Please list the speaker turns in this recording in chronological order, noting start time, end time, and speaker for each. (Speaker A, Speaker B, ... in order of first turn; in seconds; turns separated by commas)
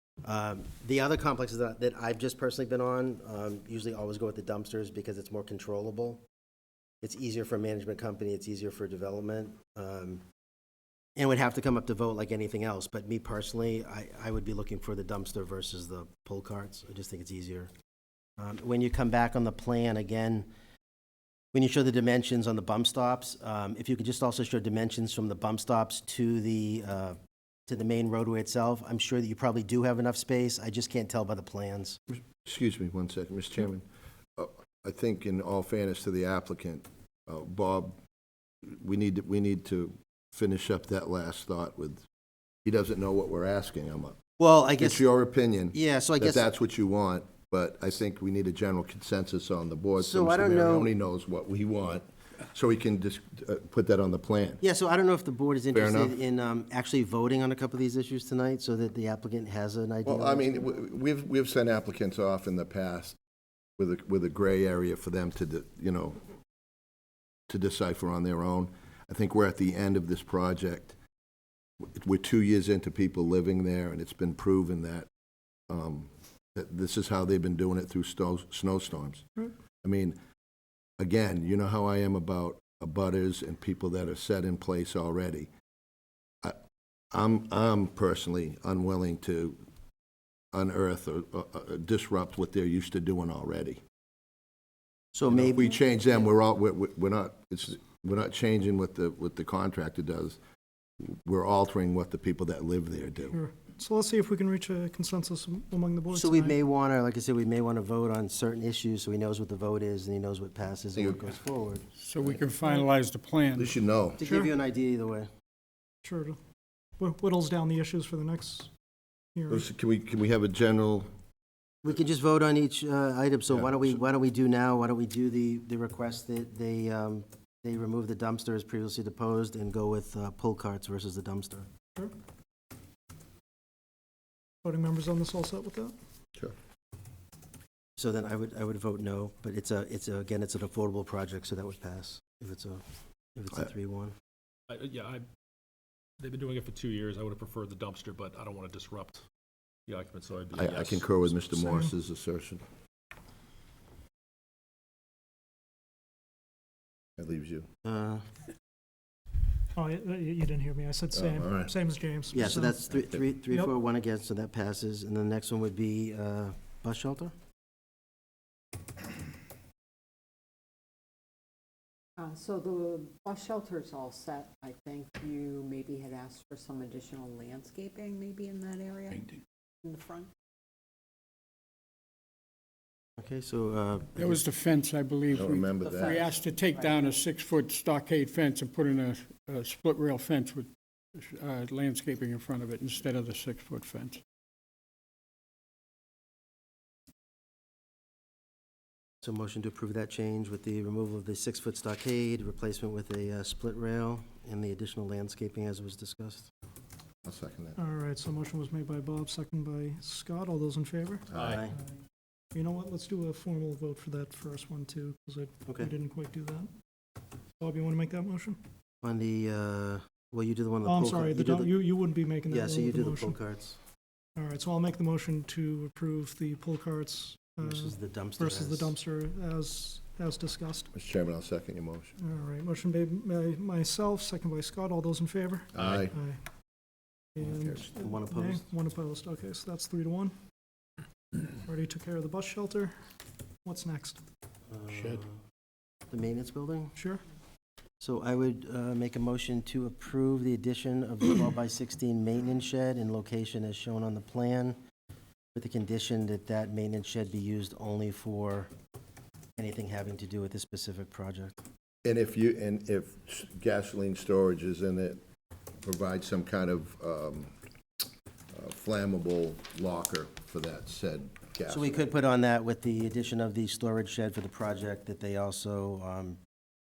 Speaker A: 0.2-6.2, Speaker A: 7.0-10.2, Speaker A: 11.2-17.7, Speaker A: 18.4-20.5, Speaker A: 21.5-32.0, Speaker B: 32.3-33.9, Speaker B: 34.4-37.9, Speaker B: 38.6-42.0, Speaker B: 42.6-44.2, Speaker A: 44.4-45.0, Speaker B: 44.8-54.6, Speaker A: 45.7-46.5, Speaker A: 50.0-50.9, Speaker A: 54.6-60.7, Speaker B: 55.7-56.1, Speaker B: 60.0-63.2, Speaker B: 63.8-66.2, Speaker B: 67.5-70.9, Speaker B: 71.8-75.1, Speaker B: 75.7-79.2, Speaker B: 79.8-80.2, Speaker B: 81.0-85.5, Speaker B: 87.1-89.6, Speaker B: 90.5-93.8, Speaker A: 95.1-96.3, Speaker B: 95.3-100.4, Speaker B: 101.0-103.4, Speaker C: 103.3-106.6, Speaker A: 106.1-111.9, Speaker B: 111.0-111.2, Speaker D: 112.0-113.8, Speaker C: 112.6-112.9, Speaker B: 113.5-114.2, Speaker A: 114.2-115.3, Speaker C: 114.2-114.5, Speaker C: 116.0-116.4, Speaker C: 117.0-118.7, Speaker C: 119.3-119.7, Speaker B: 119.5-121.1, Speaker A: 121.8-131.7, Speaker C: 134.6-135.9, Speaker A: 138.0-144.2, Speaker E: 144.7-145.2, Speaker E: 146.2-149.2, Speaker E: 149.9-151.3, Speaker B: 150.5-152.6, Speaker B: 157.2-157.7, Speaker A: 157.8-158.3, Speaker C: 159.8-162.8, Speaker B: 161.2-161.7, Speaker A: 162.3-167.3, Speaker F: 172.2-180.3, Speaker A: 183.2-184.4, Speaker D: 184.2-194.2, Speaker B: 185.3-186.3, Speaker F: 185.9-187.0, Speaker A: 199.2-206.5, Speaker B: 207.2-207.8, Speaker C: 207.8-211.2, Speaker B: 211.3-211.6, Speaker A: 211.3-211.7, Speaker C: 212.5-216.7, Speaker C: 217.6-218.6, Speaker A: 219.0-221.8, Speaker C: 220.8-223.4, Speaker A: 222.5-223.8, Speaker C: 224.4-230.9, Speaker A: 227.6-229.0, Speaker B: 230.9-232.1, Speaker C: 232.2-236.4, Speaker B: 235.7-236.1, Speaker C: 237.4-240.3, Speaker B: 237.5-237.8, Speaker A: 237.9-238.7, Speaker C: 241.6-242.9, Speaker C: 243.7-244.2, Speaker A: 244.7-245.4, Speaker A: 246.1-246.9, Speaker A: 248.0-254.8, Speaker A: 255.5-258.7, Speaker A: 259.6-261.6, Speaker B: 262.0-265.2, Speaker B: 265.8-267.5, Speaker B: 268.5-272.1, Speaker A: 271.7-276.4